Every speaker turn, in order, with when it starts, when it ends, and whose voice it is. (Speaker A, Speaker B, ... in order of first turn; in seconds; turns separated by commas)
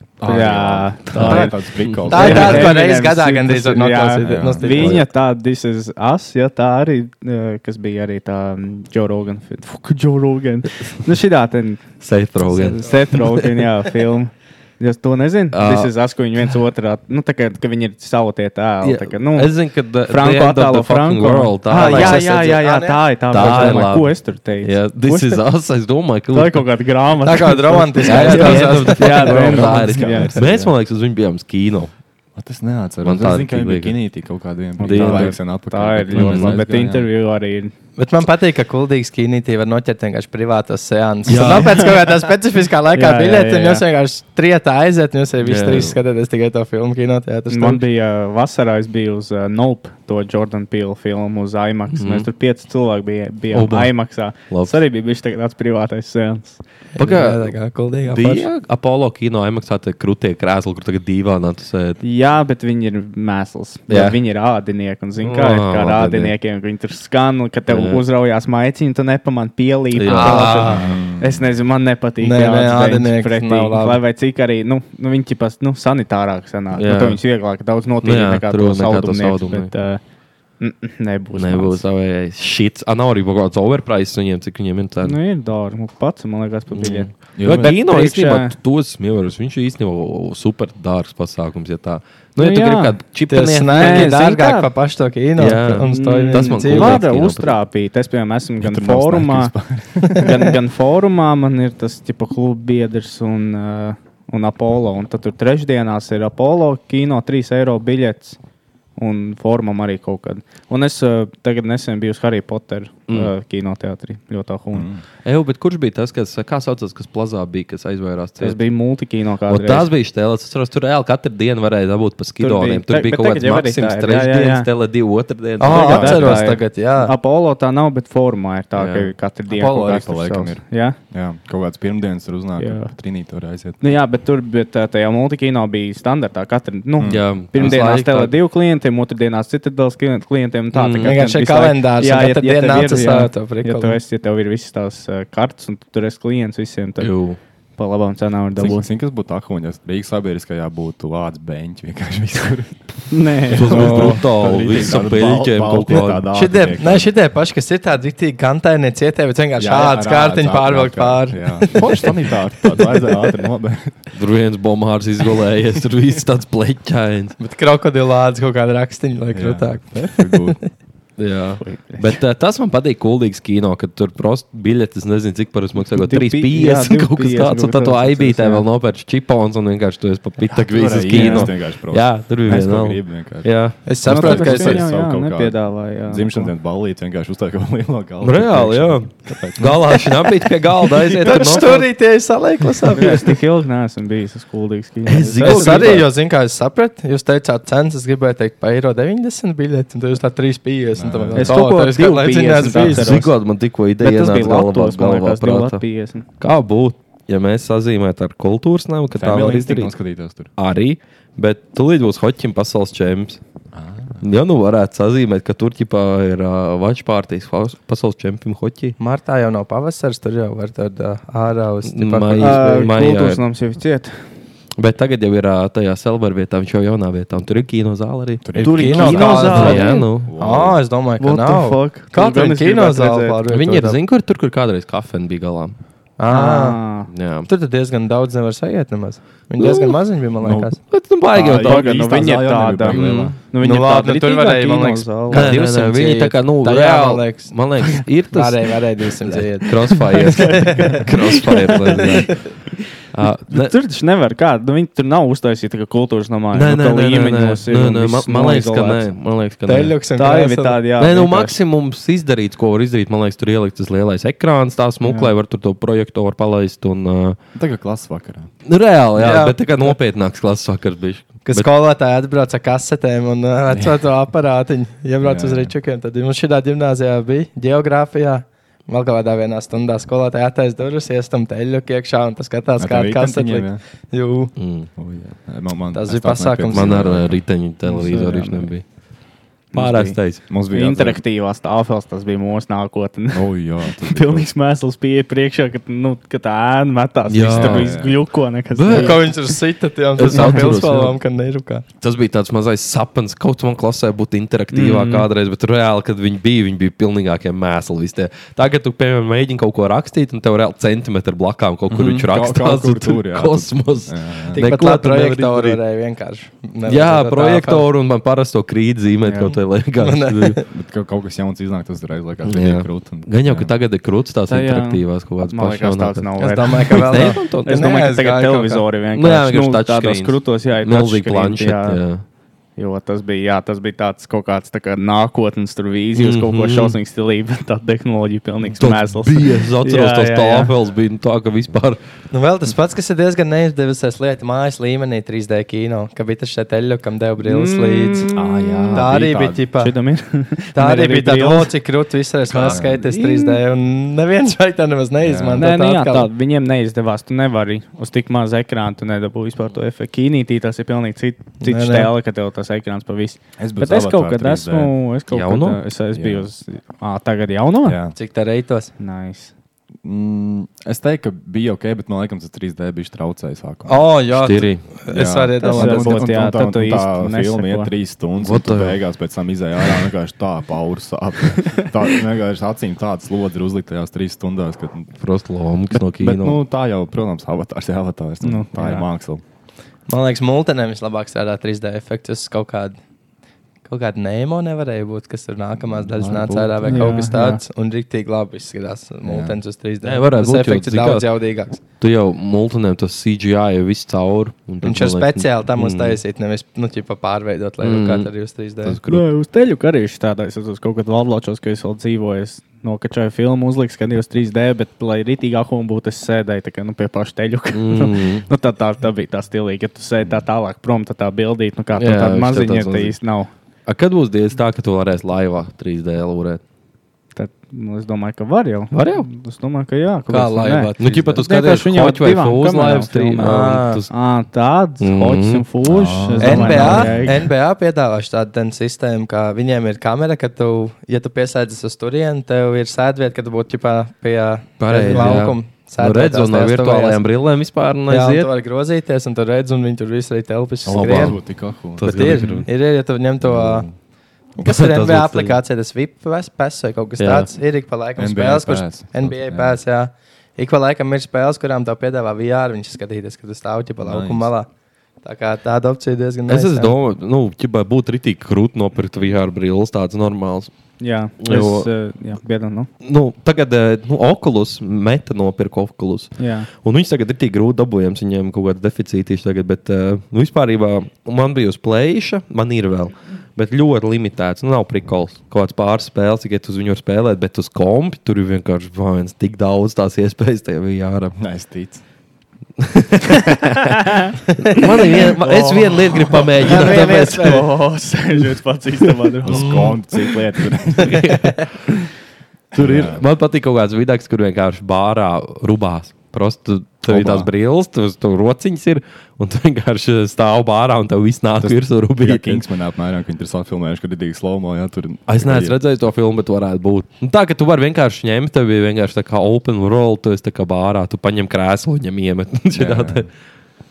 Speaker A: 0.2-2.7, Speaker B: 0.2-1.5, Speaker C: 1.1-2.7, Speaker D: 2.1-5.0, Speaker B: 2.1-11.9, Speaker A: 4.2-5.0, Speaker C: 12.0-13.6, Speaker B: 12.4-25.4, Speaker C: 15.5-15.9, Speaker C: 18.8-22.2, Speaker D: 21.7-23.8, Speaker C: 23.3-26.6, Speaker B: 26.3-30.4, Speaker D: 27.2-29.8, Speaker C: 28.1-31.9, Speaker A: 29.6-30.7, Speaker A: 32.4-37.1, Speaker C: 33.0-34.0, Speaker C: 34.8-35.4, Speaker B: 34.8-37.7, Speaker C: 36.1-36.5, Speaker D: 38.0-47.8, Speaker C: 41.2-41.9, Speaker B: 42.9-43.8, Speaker C: 45.4-46.0, Speaker B: 47.5-56.6, Speaker C: 51.9-52.3, Speaker C: 53.5-53.9, Speaker C: 54.5-54.8, Speaker D: 57.0-58.5, Speaker C: 57.0-57.5, Speaker C: 58.1-62.0, Speaker B: 62.0-80.0, Speaker C: 63.9-64.2, Speaker C: 65.2-66.3, Speaker C: 67.7-68.0, Speaker C: 69.9-70.8, Speaker D: 70.1-70.8, Speaker A: 70.7-71.6, Speaker D: 72.2-74.0, Speaker C: 76.7-77.2, Speaker C: 78.0-79.7, Speaker B: 80.6-81.8, Speaker C: 81.3-85.2, Speaker B: 85.0-88.5, Speaker C: 86.7-94.2, Speaker A: 87.3-87.8, Speaker B: 92.4-93.0, Speaker D: 93.3-97.0, Speaker B: 93.7-94.7, Speaker C: 95.4-97.6, Speaker B: 95.8-99.5, Speaker A: 98.6-100.5, Speaker B: 100.0-108.4, Speaker B: 109.0-114.9, Speaker A: 114.7-115.0, Speaker C: 115.2-118.6, Speaker B: 118.4-119.9, Speaker C: 119.5-126.4, Speaker B: 122.4-124.7, Speaker D: 125.6-127.1, Speaker A: 125.7-126.4, Speaker B: 125.7-131.0, Speaker C: 128.7-129.1, Speaker A: 129.5-134.0, Speaker B: 132.6-132.9, Speaker B: 133.8-147.1, Speaker A: 137.0-137.8, Speaker C: 137.0-138.4, Speaker C: 140.7-141.2, Speaker D: 141.0-144.0, Speaker C: 147.0-147.4, Speaker B: 147.8-148.9, Speaker A: 148.5-157.1, Speaker B: 153.1-154.1, Speaker C: 153.5-156.3, Speaker D: 156.3-162.1, Speaker A: 159.6-164.0, Speaker C: 164.1-167.3, Speaker D: 167.4-170.6, Speaker A: 169.3-170.6, Speaker C: 171.2-184.0, Speaker B: 171.6-172.1, Speaker B: 175.9-178.7, Speaker A: 180.4-190.0, Speaker B: 181.1-181.5, Speaker D: 183.8-184.8, Speaker B: 184.1-186.5, Speaker C: 188.2-191.9, Speaker D: 190.9-193.4, Speaker B: 192.9-196.1, Speaker C: 195.1-196.1, Speaker D: 195.4-203.2, Speaker A: 200.9-201.6, Speaker B: 201.4-203.3, Speaker C: 202.9-205.8, Speaker B: 204.0-206.2, Speaker C: 206.4-209.9, Speaker A: 209.1-210.5, Speaker C: 210.6-213.4, Speaker A: 213.7-214.2, Speaker C: 214.2-218.9, Speaker D: 219.0-222.8, Speaker C: 221.9-223.4, Speaker B: 222.4-224.2, Speaker C: 224.8-230.3, Speaker A: 228.4-230.9, Speaker D: 228.6-234.0, Speaker B: 228.8-230.1, Speaker B: 231.2-233.4, Speaker C: 233.5-235.8, Speaker D: 236.2-236.8, Speaker B: 236.3-237.1, Speaker C: 237.1-237.5, Speaker D: 237.5-240.8, Speaker C: 239.6-240.0, Speaker A: 240.4-240.7, Speaker C: 240.9-242.0, Speaker A: 241.3-243.4, Speaker B: 241.4-245.5, Speaker C: 242.9-243.3, Speaker D: 243.6-251.0, Speaker C: 245.3-248.6, Speaker C: 249.6-252.4, Speaker B: 250.4-251.0, Speaker B: 251.7-252.1, Speaker C: 253.1-253.7, Speaker B: 253.5-259.1, Speaker C: 256.5-259.9, Speaker D: 259.7-260.8, Speaker B: 260.1-261.6, Speaker C: 261.0-267.4, Speaker B: 265.0-265.3, Speaker A: 267.5-268.5, Speaker C: 268.6-271.7, Speaker D: 269.1-269.9, Speaker D: 271.4-284.5, Speaker A: 273.7-274.0, Speaker A: 275.2-275.7, Speaker A: 282.8-283.8, Speaker C: 284.6-284.9, Speaker A: 284.9-287.4, Speaker D: 285.9-287.1, Speaker C: 286.7-288.9, Speaker B: 287.8-288.7, Speaker C: 289.7-290.4, Speaker B: 289.7-299.5, Speaker A: 290.4-291.2, Speaker A: 293.3-294.5, Speaker C: 297.3-297.9, Speaker A: 297.4-298.2, Speaker C: 298.7-299.3, Speaker D: 298.9-301.8, Speaker C: 300.2-301.2, Speaker B: 300.3-300.7, Speaker C: 302.0-315.8, Speaker B: 304.7-305.3, Speaker A: 311.9-314.6, Speaker D: 314.6-317.9, Speaker C: 316.9-320.6, Speaker B: 319.2-319.6, Speaker D: 320.0-320.7, Speaker A: 320.7-323.7, Speaker C: 322.5-327.9, Speaker B: 324.5-332.0, Speaker D: 326.4-328.9, Speaker C: 329.1-332.2, Speaker B: 332.8-340.7, Speaker C: 336.1-337.0, Speaker C: 338.8-342.0, Speaker D: 342.3-348.3, Speaker B: 347.4-349.0, Speaker A: 348.3-349.7, Speaker D: 348.9-349.9, Speaker B: 349.8-351.7, Speaker D: 350.8-356.3, Speaker C: 352.5-352.8, Speaker A: 352.6-352.9, Speaker B: 353.0-353.6, Speaker A: 355.2-355.7, Speaker B: 355.6-368.0, Speaker D: 361.6-362.1, Speaker A: 363.6-364.9, Speaker C: 365.3-365.8, Speaker A: 366.1-366.5, Speaker A: 367.8-368.1, Speaker D: 368.1-368.9, Speaker B: 369.0-369.5, Speaker A: 370.0-374.1, Speaker D: 373.9-376.3, Speaker C: 374.4-374.8, Speaker A: 375.1-385.1, Speaker B: 375.6-377.9, Speaker C: 378.4-379.0, Speaker C: 385.2-386.6, Speaker A: 385.9-389.4, Speaker B: 388.4-389.1, Speaker D: 390.1-393.0, Speaker D: 393.9-401.8, Speaker A: 395.8-397.3, Speaker B: 396.9-397.6, Speaker A: 399.2-399.6, Speaker C: 400.0-401.3, Speaker C: 402.0-406.2, Speaker D: 404.8-409.0, Speaker C: 407.8-408.3, Speaker C: 408.8-409.2, Speaker B: 409.1-423.5, Speaker C: 417.7-418.4, Speaker C: 421.9-423.1, Speaker C: 423.9-426.6, Speaker B: 427.3-437.3, Speaker C: 428.9-429.3, Speaker D: 430.3-431.4, Speaker C: 431.0-434.1, Speaker D: 433.4-434.0, Speaker C: 435.0-435.6, Speaker A: 435.8-437.5, Speaker D: 436.4-447.3, Speaker C: 444.8-448.5, Speaker D: 448.1-451.4, Speaker A: 450.8-452.1, Speaker C: 450.9-451.4, Speaker C: 452.0-452.7, Speaker D: 452.0-453.9, Speaker A: 453.4-453.9, Speaker D: 454.6-464.7, Speaker C: 454.6-455.6, Speaker C: 457.2-457.5, Speaker A: 458.1-459.8, Speaker A: 464.0-464.5, Speaker D: 465.2-466.9, Speaker C: 466.5-470.7, Speaker B: 471.0-472.9, Speaker C: 471.4-471.9, Speaker C: 473.0-491.4, Speaker B: 476.4-476.7, Speaker A: 491.4-492.0, Speaker C: 492.8-494.0, Speaker B: 494.1-499.9, Speaker C: 494.6-497.6, Speaker D: 496.7-497.6, Speaker A: 499.4-501.2, Speaker D: 499.5-499.9, Speaker C: 501.1-501.5, Speaker A: 502.7-503.2, Speaker C: 502.7-512.6, Speaker A: 507.1-507.5, Speaker A: 511.6-515.8, Speaker C: 515.3-523.3, Speaker A: 522.7-523.3